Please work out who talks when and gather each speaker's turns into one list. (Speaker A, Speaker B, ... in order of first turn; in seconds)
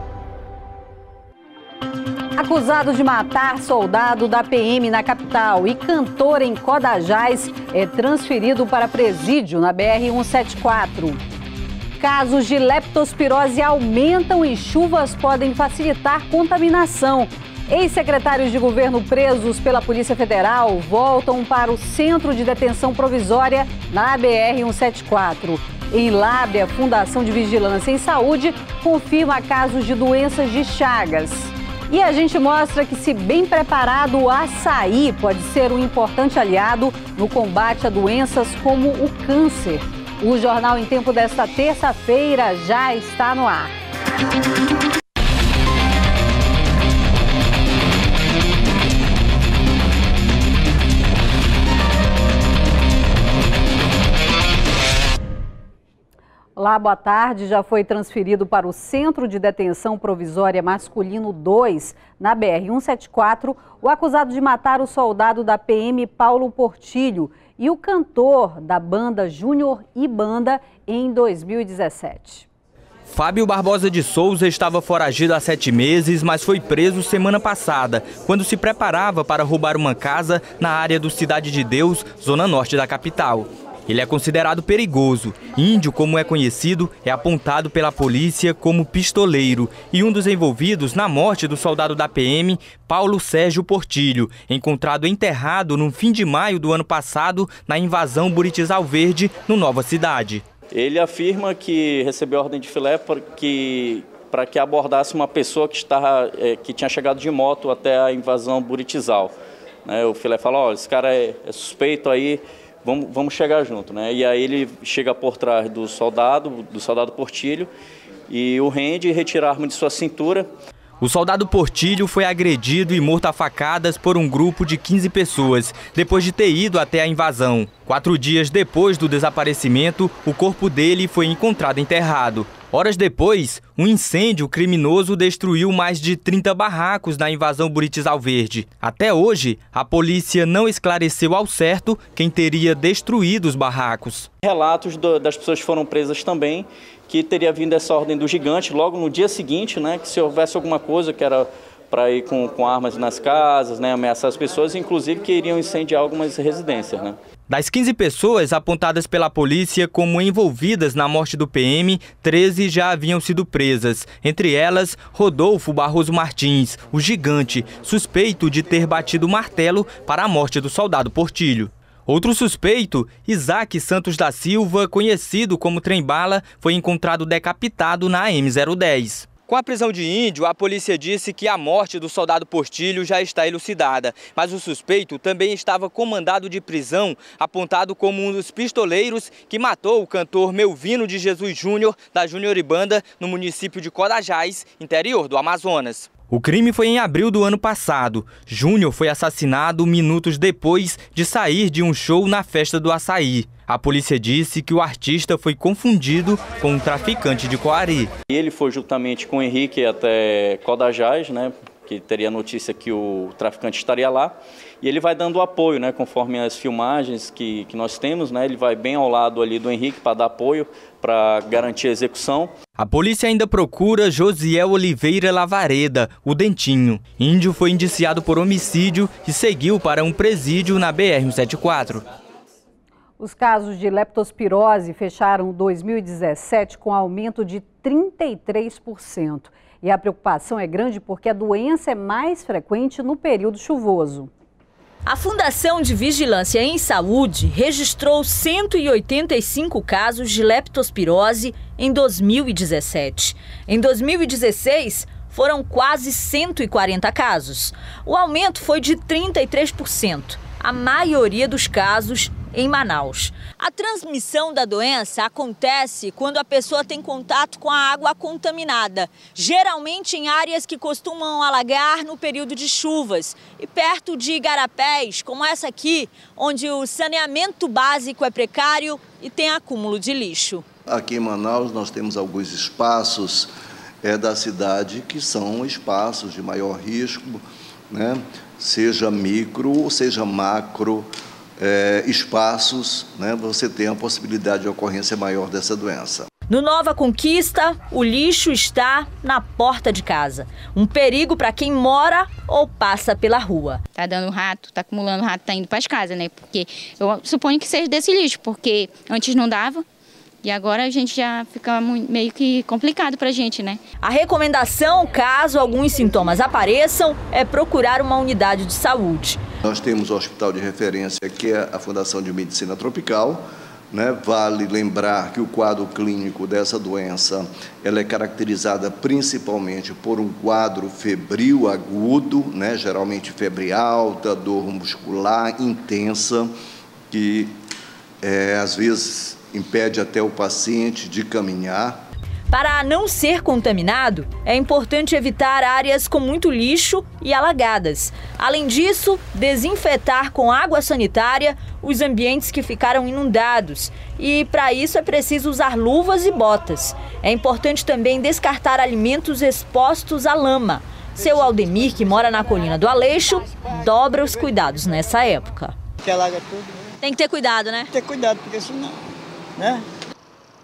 Speaker A: 2.4-11.2, 12.0-43.7, 56.6-72.5, 233.2-244.3
Speaker B: 73.1-100.4, 121.0-144.3, 157.5-208.1, 222.8-232.0
Speaker C: 100.7-109.3, 109.8-117.7, 118.3-120.5, 144.4-157.2, 208.3-222.5
Speaker D: 245.1-280.6, 296.5-303.8, 314.0-319.4, 342.5-365.8, 367.0-367.9
Speaker E: 280.9-283.5, 284.0-296.3, 319.6-336.5, 337.1-337.6, 338.2-342.0
Speaker F: 304.0-309.9, 310.4-313.8
Speaker G: 366.0-366.8, 367.9-369.0, 369.6-369.8